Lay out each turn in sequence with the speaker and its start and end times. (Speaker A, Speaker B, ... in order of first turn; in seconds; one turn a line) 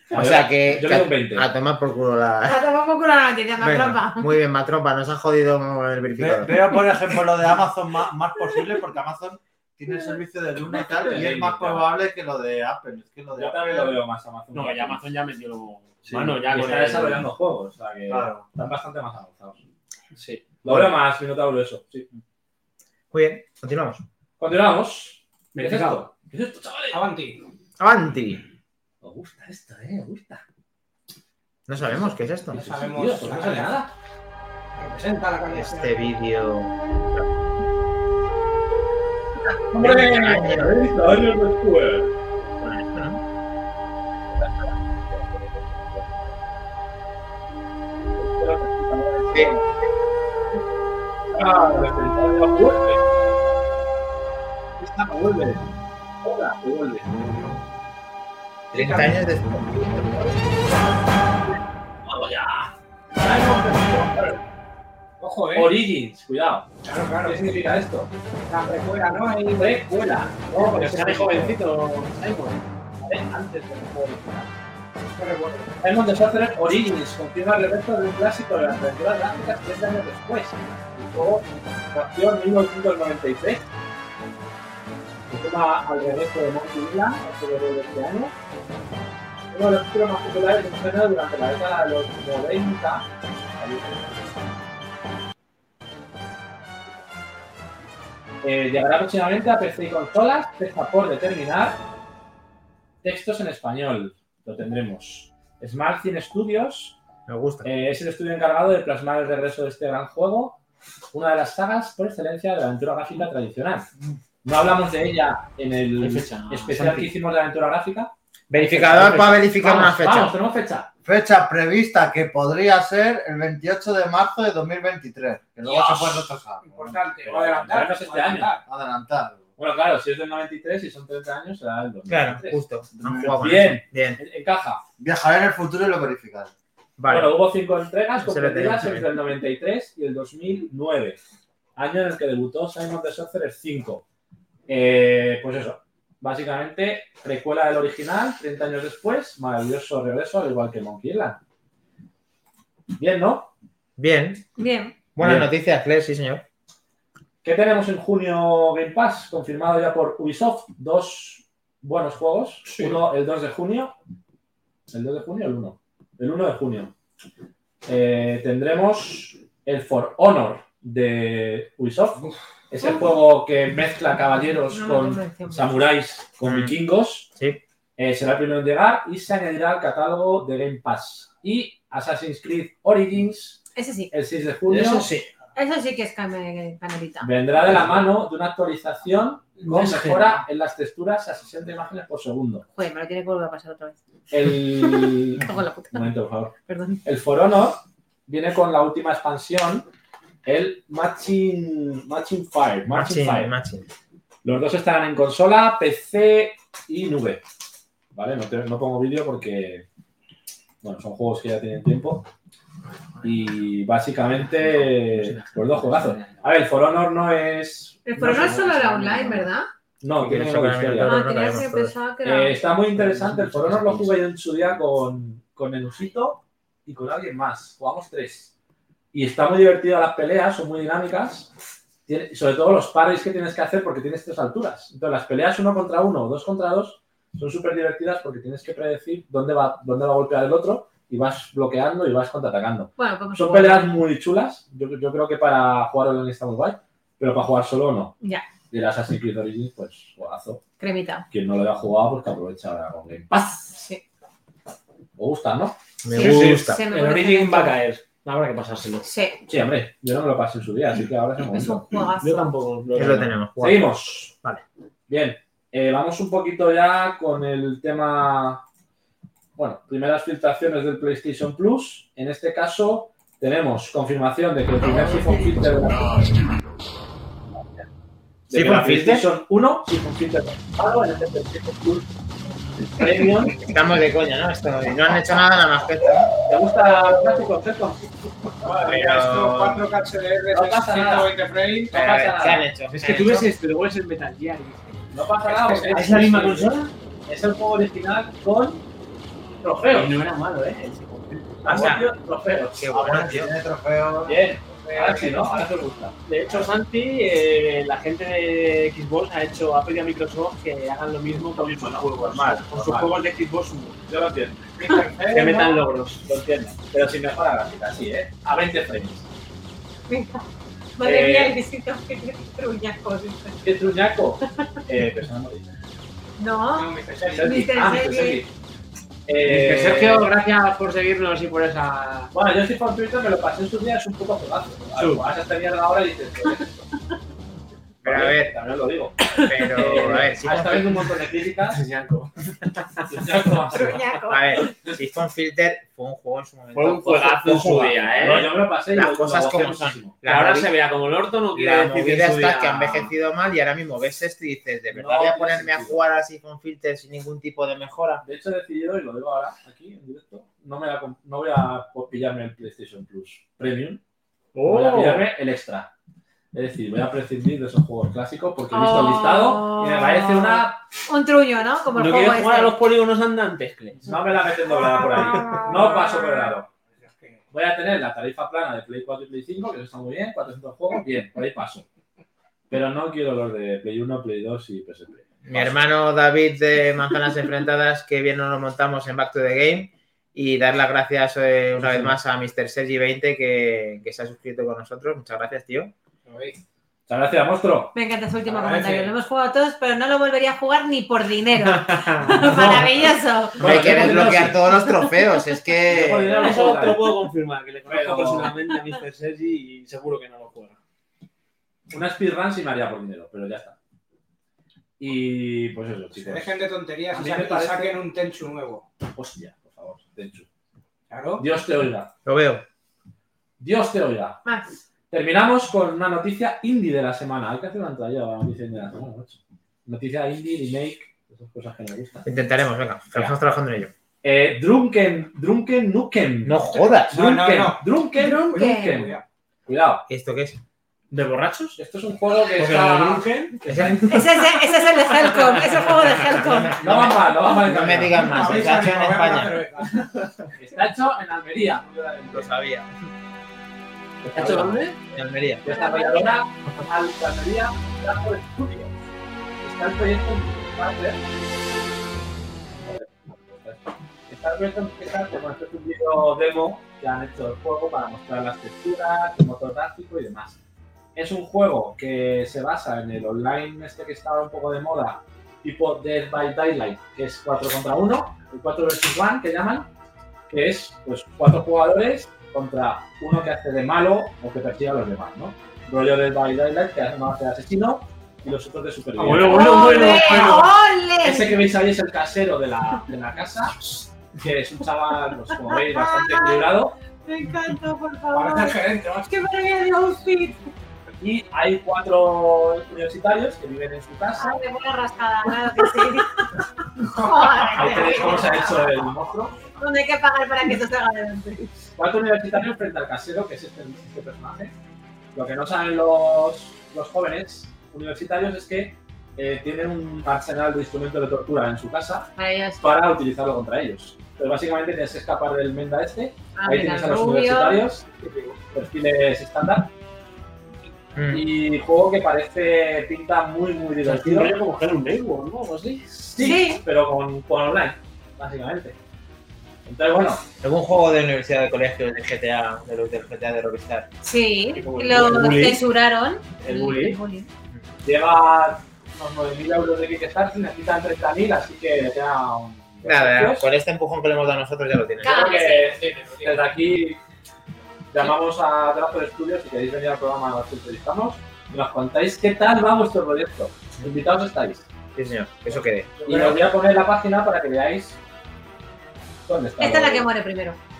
Speaker A: 0.1-1.5
Speaker B: 0.1-2.6
Speaker C: 2.4-4.3
Speaker B: 3.6-6.7
Speaker D: 6.1-14.0
Speaker A: 10.9-11.9
Speaker A: 13.3-15.0
Speaker E: 14.5-17.3
Speaker D: 16.1-16.4
Speaker A: 16.4-19.6
Speaker D: 18.1-18.4
Speaker E: 20.1-20.9
Speaker A: 20.6-22.1
Speaker B: 23.1-24.0
Speaker A: 24.4-27.0
Speaker E: 25.5-26.1
Speaker F: 26.9-27.4
Speaker B: 27.8-28.4
Speaker A: 29.0-30.4
Speaker B: 31.7-32.6
Speaker A: 31.8-33.9
Speaker F: 32.5-33.8
Speaker F: 34.8-36.1
Speaker B: 35.5-36.7
Speaker A: 39.7-42.1
Speaker B: 39.7-40.8
Speaker B: 42.6-43.2
Speaker A: 44.3-46.4
Speaker A: 48.2-49.6
Speaker B: 49.3-49.6
Speaker A: 51.3-53.0
Speaker A: 54.8-55.6
Speaker A: 56.2-57.2
Speaker F: 58.7-59.2
Speaker B: 58.7-60.2
Speaker A: 62.0-64.4
Speaker F: 65.2-65.7
Speaker A: 65.5-66.7
Speaker F: 66.8-67.8
Speaker A: 67.2-68.1
Speaker F: 68.5-69.9
Speaker A: 69.5-71.6
Speaker E: 70.5-72.6
Speaker A: 73.0-74.5
Speaker F: 75.1-75.7
Speaker A: 75.8-83.7
Speaker A: 85.3-88.3
Speaker A: 89.5-94.4
Speaker A: 98.4-101.8
Speaker A: 103.0-107.0
Speaker B: 107.3-107.7
Speaker A: 107.6-110.6
Speaker A: 111.1-113.9
Speaker A: 114.4-118.1
Speaker E: 116.0-117.1
Speaker B: 118.5-120.3
Speaker E: 118.6-119.0
Speaker A: 118.7-120.9
Speaker D: 121.0-127.0
Speaker F: 125.6-128.6
Speaker A: 127.2-128.5
Speaker D: 128.6-129.4
Speaker A: 129.6-134.8
Speaker B: 132.1-134.2
Speaker D: 133.0-133.4
Speaker D: 135.0-136.5
Speaker B: 137.0-137.4
Speaker A: 137.1-141.2
Speaker B: 138.2-139.1
Speaker A: 141.8-144.0
Speaker A: 144.7-151.4
Speaker A: 153.0-153.5
Speaker B: 154.0-154.4
Speaker C: 154.6-154.9
Speaker B: 155.2-156.4
Speaker A: 155.2-155.5
Speaker A: 157.4-163.9
Speaker A: 164.9-166.9
Speaker A: 167.8-177.3
Speaker C: 174.7-175.8
Speaker B: 176.4-176.8
Speaker B: 177.3-177.6
Speaker A: 178.0-183.6
Speaker C: 183.7-184.1
Speaker A: 184.1-185.1
Speaker E: 184.7-185.3
Speaker C: 185.5-187.3
Speaker A: 187.2-192.6
Speaker E: 189.6-190.4
Speaker C: 192.7-194.0
Speaker A: 194.3-199.9
Speaker C: 194.8-196.1
Speaker C: 196.7-197.0
Speaker A: 200.4-203.5
Speaker B: 202.9-203.8
Speaker A: 204.4-207.4
Speaker A: 208.1-209.8
Speaker A: 210.8-212.3
Speaker A: 213.2-219.4
Speaker E: 214.5-216.5
Speaker C: 218.1-219.7
Speaker A: 220.0-221.2
Speaker B: 220.1-221.9
Speaker C: 221.0-222.6
Speaker A: 222.2-228.5
Speaker E: 222.9-224.2
Speaker A: 229.1-231.5
Speaker A: 232.1-248.1
Speaker C: 243.0-244.0
Speaker C: 248.2-248.5
Speaker A: 248.7-250.6
Speaker C: 250.8-251.2
Speaker A: 251.3-253.7
Speaker C: 253.7-254.0
Speaker A: 255.2-256.6
Speaker B: 256.0-256.8
Speaker E: 256.1-259.1
Speaker C: 256.4-257.8
Speaker C: 259.0-259.4
Speaker A: 259.5-261.9
Speaker C: 261.4-262.5
Speaker E: 262.2-263.3
Speaker B: 262.9-264.6
Speaker A: 263.6-264.3
Speaker A: 265.1-268.6
Speaker A: 269.6-276.4
Speaker A: 278.5-282.1
Speaker B: 278.5-279.3
Speaker A: 282.9-283.6
Speaker B: 283.6-286.3
Speaker A: 286.5-288.3
Speaker F: 288.6-291.9
Speaker B: 288.9-289.8
Speaker A: 290.5-291.3
Speaker A: 291.9-292.7
Speaker B: 291.9-293.5
Speaker E: 292.9-295.0
Speaker A: 295.1-298.8
Speaker F: 295.5-296.2
Speaker E: 295.8-296.9
Speaker A: 299.6-300.1
Speaker E: 299.9-301.9
Speaker A: 301.6-302.8
Speaker B: 301.7-302.0
Speaker B: 302.7-303.5
Speaker D: 302.9-304.4
Speaker A: 304.2-306.2
Speaker F: 304.7-305.7
Speaker E: 306.2-314.0
Speaker A: 311.6-313.1
Speaker A: 314.1-314.7
Speaker F: 314.8-315.8
Speaker E: 315.2-316.2
Speaker A: 316.2-319.3
Speaker C: 320.1-320.4
Speaker C: 321.0-323.6
Speaker A: 321.0-321.6
Speaker A: 323.6-325.7
Speaker C: 326.4-328.4
Speaker F: 326.7-327.6
Speaker A: 327.1-328.5
Speaker A: 329.3-330.3
Speaker E: 329.4-332.3
Speaker A: 332.3-336.8
Speaker E: 334.9-335.2
Speaker A: 338.0-341.8
Speaker B: 338.0-338.5
Speaker B: 339.4-341.0
Speaker E: 341.7-343.5
Speaker A: 343.1-344.1
Speaker C: 343.7-344.6
Speaker B: 344.3-350.7
Speaker E: 346.7-348.5
Speaker A: 348.2-350.1
Speaker E: 350.2-353.1
Speaker B: 351.5-358.2
Speaker A: 354.9-356.0
Speaker A: 358.2-364.0
Speaker E: 364.5-365.3
Speaker A: 364.6-365.9
Speaker A: 366.5-370.8
Speaker C: 368.7-372.8
Speaker E: 371.9-374.1
Speaker A: 374.0-376.7
Speaker C: 374.8-376.4
Speaker F: 377.0-377.4
Speaker A: 377.5-381.9
Speaker A: 382.7-385.8
Speaker B: 385.4-395.9
Speaker F: 396.2-396.6
Speaker A: 397.1-397.9
Speaker C: 397.9-403.6
Speaker F: 398.4-399.1
Speaker E: 401.9-402.5
Speaker A: 402.3-404.6
Speaker B: 403.6-406.5
Speaker C: 404.9-405.1
Speaker A: 405.9-407.2
Speaker E: 406.3-410.8
Speaker A: 407.9-408.5
Speaker A: 411.9-413.8
Speaker A: 415.0-416.5
Speaker F: 416.1-418.9
Speaker A: 417.1-418.0
Speaker A: 419.1-420.5
Speaker F: 421.1-421.4
Speaker A: 421.4-422.1
Speaker B: 422.2-422.6
Speaker A: 423.6-424.4
Speaker A: 425.1-432.3
Speaker B: 432.2-433.9
Speaker A: 434.2-440.0
Speaker B: 436.4-437.2
Speaker F: 437.1-439.2
Speaker C: 438.5-439.0
Speaker B: 440.1-440.6
Speaker E: 441.1-441.8
Speaker A: 441.8-444.2
Speaker E: 442.6-443.5
Speaker B: 443.6-444.4
Speaker C: 444.1-446.8
Speaker B: 446.7-449.6
Speaker A: 446.8-448.5
Speaker F: 448.2-450.3
Speaker A: 450.6-452.5
Speaker B: 452.3-452.9
Speaker A: 454.2-454.8
Speaker E: 454.3-455.0
Speaker B: 455.1-455.6
Speaker A: 455.6-458.9
Speaker C: 455.7-456.4
Speaker A: 459.6-461.2
Speaker A: 462.8-470.6
Speaker A: 471.1-479.9
Speaker A: 480.5-490.6
Speaker E: 489.1-490.7
Speaker C: 489.3-491.7
Speaker A: 491.2-497.0
Speaker C: 495.6-500.7
Speaker F: 498.3-499.3
Speaker A: 501.2-504.6
Speaker C: 504.4-509.0
Speaker F: 507.0-508.4
Speaker A: 507.6-509.5
Speaker C: 509.8-511.6
Speaker A: 511.9-514.7
Speaker A: 515.3-528.0
Speaker C: 522.4-522.9
Speaker C: 526.5-527.9
Speaker F: 528.2-528.6
Speaker A: 528.7-529.9
Speaker B: 531.1-531.4
Speaker A: 531.3-534.6
Speaker E: 534.0-536.2
Speaker A: 536.2-539.0
Speaker C: 536.4-536.8
Speaker A: 539.9-540.4
Speaker B: 540.6-544.1
Speaker C: 544.2-547.5
Speaker E: 544.7-545.8
Speaker E: 546.6-547.1
Speaker A: 546.8-547.1
Speaker A: 548.0-553.7
Speaker B: 553.0-555.5
Speaker C: 555.2-556.0
Speaker A: 555.2-557.2
Speaker F: 555.8-556.5
Speaker A: 558.1-564.9
Speaker B: 565.1-566.5
Speaker F: 566.2-566.5
Speaker A: 566.2-568.2
Speaker A: 569.5-570.3
Speaker C: 569.8-570.8